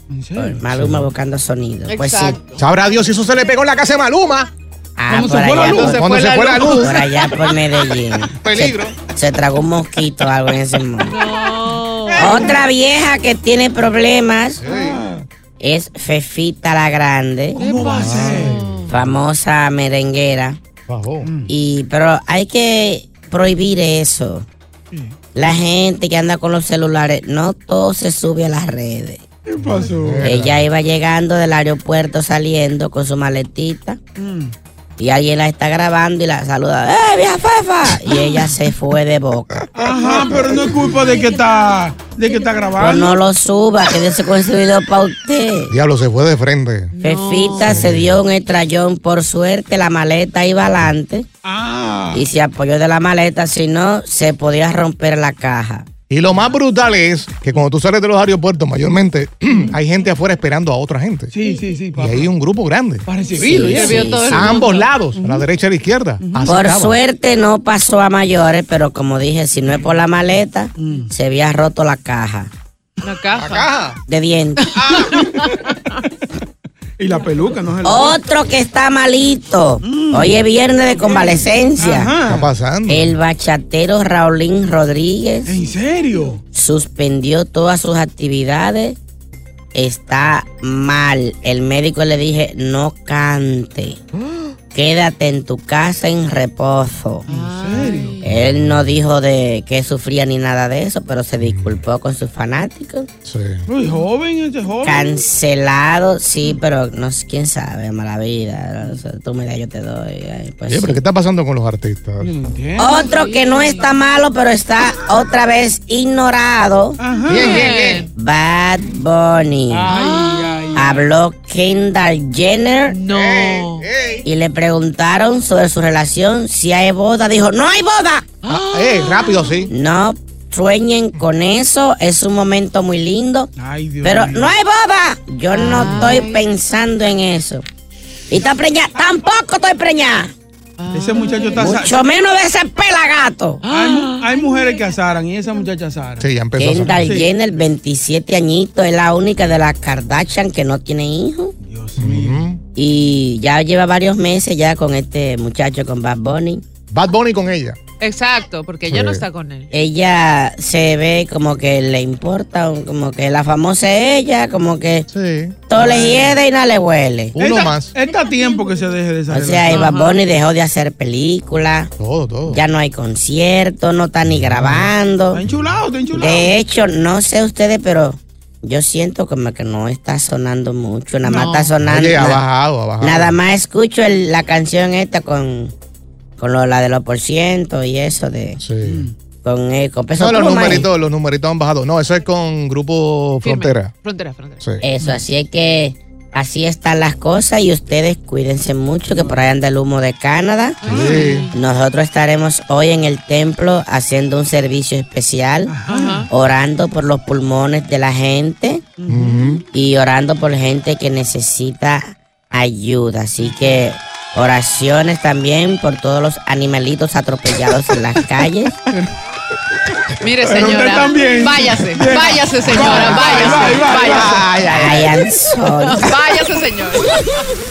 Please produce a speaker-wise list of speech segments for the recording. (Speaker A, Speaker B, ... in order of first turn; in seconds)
Speaker A: 0.1-0.7, 5.1-6.7, 12.1-12.6, 14.7-15.2, 17.6-18.7, 21.2-21.5, 29.5-30.4, 34.2-34.5, 39.7-43.2, 51.4-52.3, 61.3-62.3, 63.1-64.2, 65.1-65.5, 66.2-66.8, 70.8-71.1, 77.0-78.2, 79.8-80.4, 81.0-82.5, 85.5-86.4, 97.3-98.2, 103.7-105.2, 112.2-113.1, 117.0-117.8, 119.7-121.1, 133.6-134.6, 140.9-142.0, 143.7-146.3, 146.9-147.3, 151.6-152.5, 165.7-166.4, 167.4-169.9, 175.3-176.6, 181.2-181.8, 188.8-189.1, 205.7-206.3, 209.0-209.6, 220.4-225.1
Speaker B: 0.4-2.4, 5.0-11.3, 12.2-14.7, 15.6-17.6, 18.9-20.6, 21.5-24.5, 25.4-29.2, 30.2-34.0, 35.0-39.7, 42.8-45.7, 47.0-51.3, 52.1-55.9, 63.4-64.6, 66.5-72.5, 74.1-74.7, 77.8-82.1, 82.9-85.7, 86.5-89.0, 89.7-94.0, 94.7-97.3, 98.2-103.1, 104.8-111.0, 112.8-117.0, 118.1-119.9, 120.8-123.0, 124.2-128.3, 129.7-133.5, 134.0-137.7, 138.3-140.3, 141.5-143.6, 146.6-151.6, 152.8-156.6, 159.7-165.1, 165.7-167.4, 169.3-171.9, 172.5-175.4, 176.1-182.4, 183.0-185.7, 186.4-188.6, 189.4-190.9, 194.8-205.8, 206.3-208.9, 209.7-218.8, 224.7-226.2
Speaker C: 0.7-1.1, 2.6-4.5, 5.7-7.1, 8.4-8.9, 14.6-15.1, 17.9-19.1, 20.9-21.3, 29.7-30.6, 45.7-46.9, 47.6-48.2, 56.1-61.4, 62.0-63.1, 64.3-67.0, 73.3-74.0, 74.8-75.1, 82.2-83.2, 98.3-99.0, 101.4-101.8, 103.2-103.7, 110.7-112.3, 117.3-118.1, 123.1-124.3, 128.5-129.7, 146.2-147.2, 152.0-152.6, 156.9-157.8, 158.9-159.2, 165.1-165.6, 167.3-167.9, 172.0-172.6, 174.3-174.9, 181.8-183.4, 188.6-189.1, 190.2-193.9, 200.9-201.5, 209.1-209.6, 222.8-223.8
Speaker D: 1.9-2.6, 5.7-6.7, 11.1-12.5, 17.6-18.9, 46.9-47.9, 63.4-64.9, 73.0-73.7, 74.6-76.0, 97.3-98.4, 112.9-113.9, 117.3-118.1, 119.9-120.5, 122.9-123.9, 128.4-129.7, 135.5-136.5, 140.8-141.8, 143.6-145.0, 158.0-159.7, 169.7-170.2, 193.4-194.7, 200.8-201.6, 205.9-206.3, 220.2-224.7, 225.8-227.4